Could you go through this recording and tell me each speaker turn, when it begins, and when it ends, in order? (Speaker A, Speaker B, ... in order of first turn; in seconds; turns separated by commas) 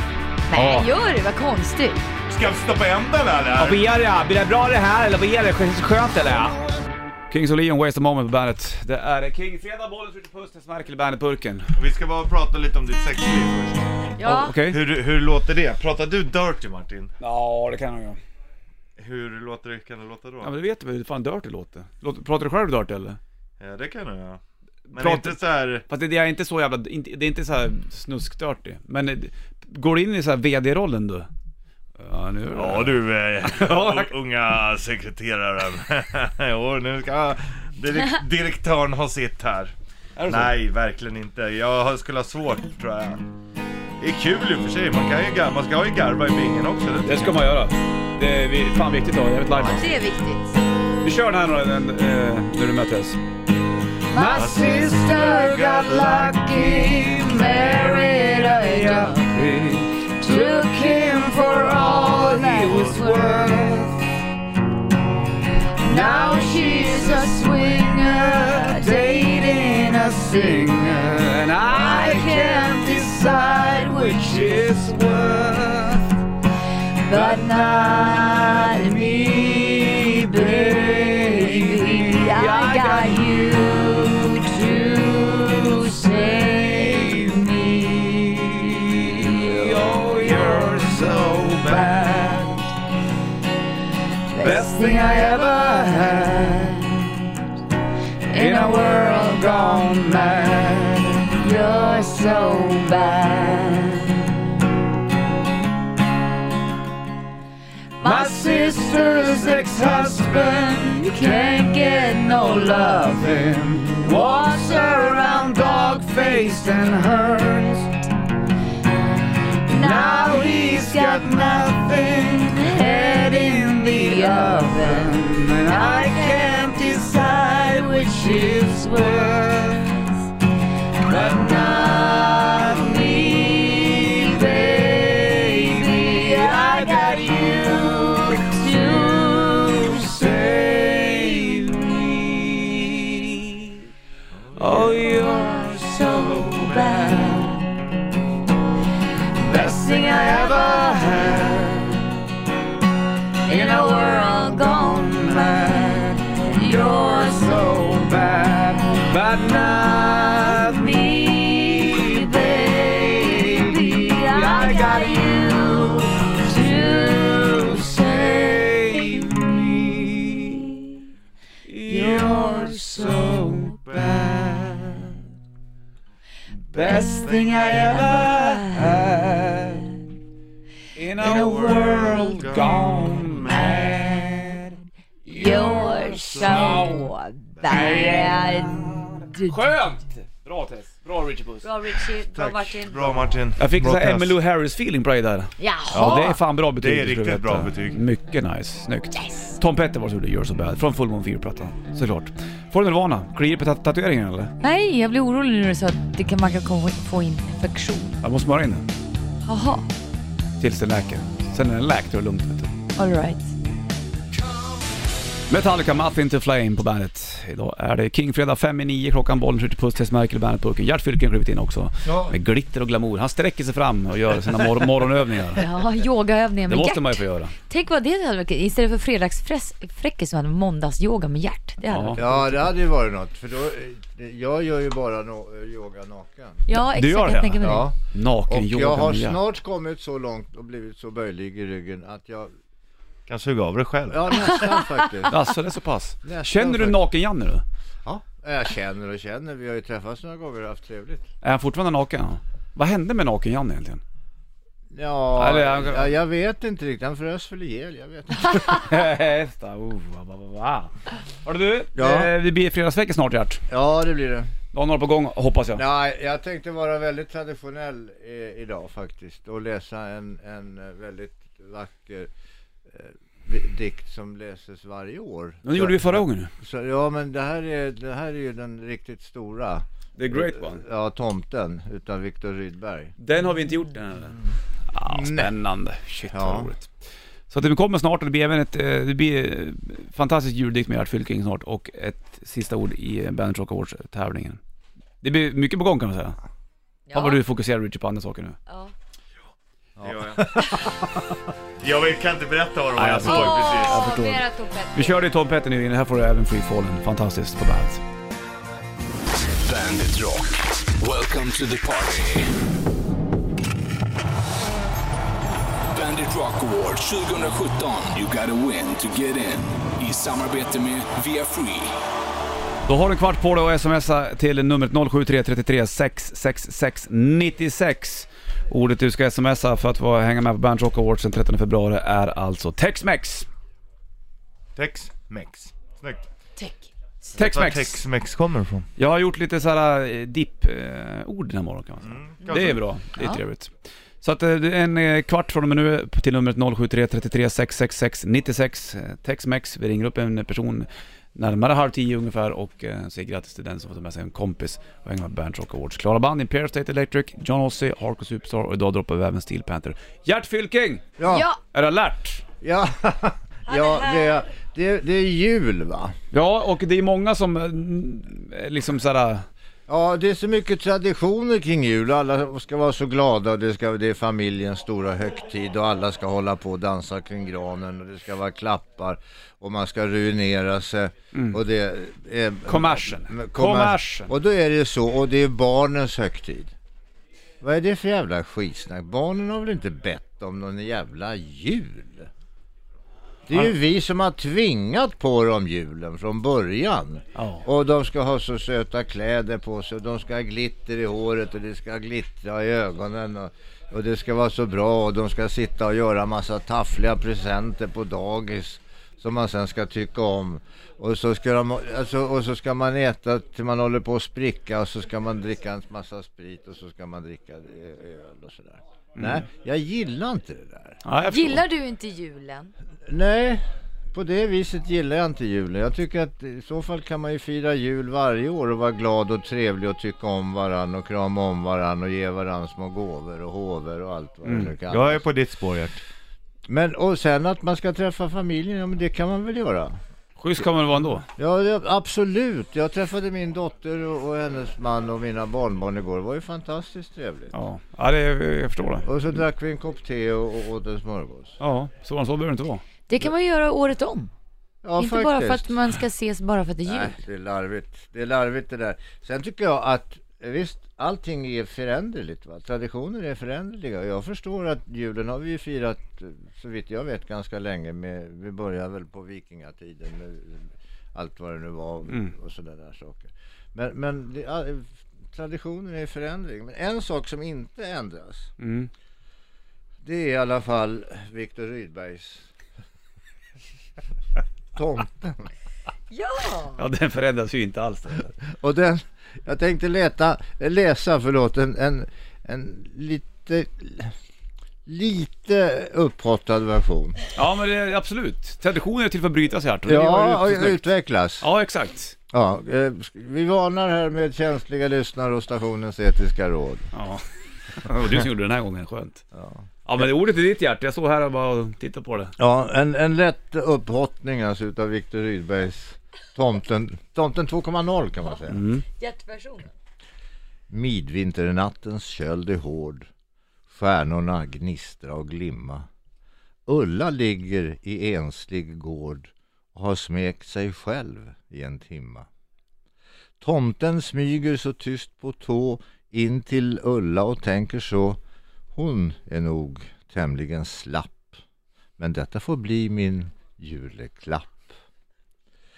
Speaker A: 0.5-2.0, Speaker B: 0.5-0.9, Speaker C: 2.3-3.8, Speaker B: 3.6-6.6, Speaker B: 7.3-11.8, Speaker C: 11.8-13.9, Speaker A: 14.2-14.6, Speaker B: 14.2-14.8, Speaker C: 14.6-17.1, Speaker B: 17.2-18.2, Speaker C: 19.0-20.5, Speaker B: 20.4-23.2, Speaker C: 23.6-24.4, Speaker B: 24.9-31.3, Speaker C: 24.9-25.9, Speaker B: 32.0-34.1, Speaker C: 32.5-39.7, Speaker B: 40.2-40.6, Speaker C: 40.3-43.2, Speaker C: 44.0-47.5, Speaker B: 47.0-49.9, Speaker C: 49.5-49.9, Speaker A: 49.7-50.6, Speaker B: 51.0-53.2, Speaker A: 54.1-59.3, Speaker B: 54.1-64.0, Speaker C: 54.3-55.0, Speaker A: 60.2-63.8, Speaker C: 62.6-63.0, Speaker A: 65.8-75.0, Speaker B: 65.9-76.1, Speaker A: 77.0-87.9, Speaker B: 77.1-92.7, Speaker A: 89.1-89.7, Speaker A: 94.3-96.7, Speaker B: 94.4-97.2, Speaker A: 98.3-100.0, Speaker B: 98.3-101.4, Speaker A: 101.3-104.2, Speaker B: 103.4-104.2, Speaker A: 108.0-113.2, Speaker B: 108.0-117.9, Speaker A: 114.0-116.8, Speaker B: 119.7-130.0, Speaker A: 119.7-130.2, Speaker A: 131.0-140.2, Speaker B: 131.0-143.8, Speaker C: 144.3-145.1, Speaker B: 144.6-147.7, Speaker A: 145.1-147.6, Speaker B: 149.4-152.0, Speaker A: 149.4-151.6, Speaker A: 153.4-158.4, Speaker B: 153.5-170.8, Speaker A: 159.6-169.3, Speaker B: 171.7-175.2, Speaker A: 171.9-173.6, Speaker C: 173.9-174.2, Speaker B: 176.5-179.9, Speaker C: 176.7-178.0, Speaker A: 176.9-178.9, Speaker B: 180.9-187.1, Speaker C: 181.2-183.5, Speaker A: 181.2-182.7, Speaker A: 183.5-184.5, Speaker A: 185.3-189.6, Speaker C: 185.3-186.8, Speaker C: 187.6-188.0, Speaker B: 187.7-192.0, Speaker A: 191.6-193.3, Speaker C: 192.3-194.4, Speaker B: 193.6-204.5, Speaker A: 195.6-196.4, Speaker C: 195.9-198.0, Speaker A: 199.2-199.6, Speaker A: 204.6-208.2, Speaker B: 208.2-208.9, Speaker A: 209.4-209.9, Speaker B: 210.6-212.8, Speaker A: 213.0-213.5, Speaker B: 215.5-225.7, Speaker D: 222.1-222.3, Speaker A: 225.6-232.7, Speaker B: 226.7-227.6, Speaker B: 231.9-232.2, Speaker D: 232.2-236.6, Speaker A: 236.7-237.9, Speaker B: 236.9-239.4, Speaker D: 237.6-237.9, Speaker D: 238.5-242.5, Speaker C: 243.3-244.7, Speaker D: 244.1-245.3, Speaker B: 245.3-247.6, Speaker D: 246.2-247.0, Speaker D: 248.1-251.3, Speaker B: 251.4-254.0, Speaker D: 254.9-258.9, Speaker B: 255.4-256.1, Speaker B: 258.7-260.9, Speaker B: 261.4-263.6, Speaker D: 261.9-262.3, Speaker D: 263.7-264.5, Speaker B: 264.7-265.8, Speaker D: 265.8-272.3, Speaker D: 272.9-283.1, Speaker B: 275.6-276.5, Speaker B: 280.2-280.8, Speaker B: 283.2-284.4, Speaker B: 284.9-286.9, Speaker D: 285.1-285.5, Speaker D: 286.3-286.7, Speaker B: 287.5-294.6, Speaker B: 295.2-296.4, Speaker A: 297.1-297.4, Speaker B: 297.1-298.6, Speaker A: 298.7-298.9, Speaker D: 300.0-301.4, Speaker C: 300.0-300.5, Speaker C: 301.8-304.1, Speaker B: 303.0-304.4, Speaker A: 303.2-305.2, Speaker B: 304.9-308.0, Speaker E: 309.6-312.5, Speaker E: 315.9-322.0, Speaker B: 322.9-333.5, Speaker C: 334.8-336.3, Speaker A: 336.6-337.3, Speaker B: 337.4-338.0, Speaker C: 337.4-338.9, Speaker B: 339.0-361.1, Speaker C: 342.0-342.8, Speaker D: 361.2-361.5, Speaker A: 361.3-361.6, Speaker B: 361.7-362.4, Speaker D: 362.6-366.1, Speaker A: 363.7-364.4, Speaker B: 366.3-369.5, Speaker D: 369.9-386.7, Speaker B: 381.3-381.6, Speaker B: 382.7-384.3, Speaker D: 387.6-392.3, Speaker D: 393.5-421.0, Speaker B: 397.4-397.7, Speaker B: 419.2-419.4, Speaker B: 421.1-421.6, Speaker A: 421.3-422.7, Speaker D: 423.1-435.2, Speaker B: 434.4-434.7, Speaker C: 434.9-436.0, Speaker D: 436.7-440.0, Speaker B: 440.4-441.3, Speaker D: 441.4-447.5, Speaker B: 447.5-449.4, Speaker D: 449.1-451.6, Speaker B: 451.6-452.8, Speaker A: 453.1-454.3, Speaker D: 454.8-455.7, Speaker A: 455.0-457.2, Speaker D: 456.9-478.5, Speaker B: 472.1-472.3, Speaker B: 478.6-478.9, Speaker D: 480.0-482.5, Speaker D: 484.8-485.5, Speaker A: 486.1-486.8, Speaker B: 486.8-488.3, Speaker D: 488.5-494.1, Speaker D: 494.9-497.2, Speaker B: 497.4-500.8, Speaker D: 499.9-501.5, Speaker B: 501.4-502.1, Speaker D: 502.3-506.9, Speaker B: 506.9-509.2, Speaker D: 509.3-509.6, Speaker B: 509.9-512.4, Speaker D: 512.4-518.6, Speaker B: 518.5-518.8, Speaker A: 519.0-519.7, Speaker D: 520.7-523.1, Speaker D: 523.7-525.9, Speaker D: 526.7-532.3, Speaker D: 533.4-538.2, Speaker D: 538.7-541.4, Speaker D: 542.0-544.7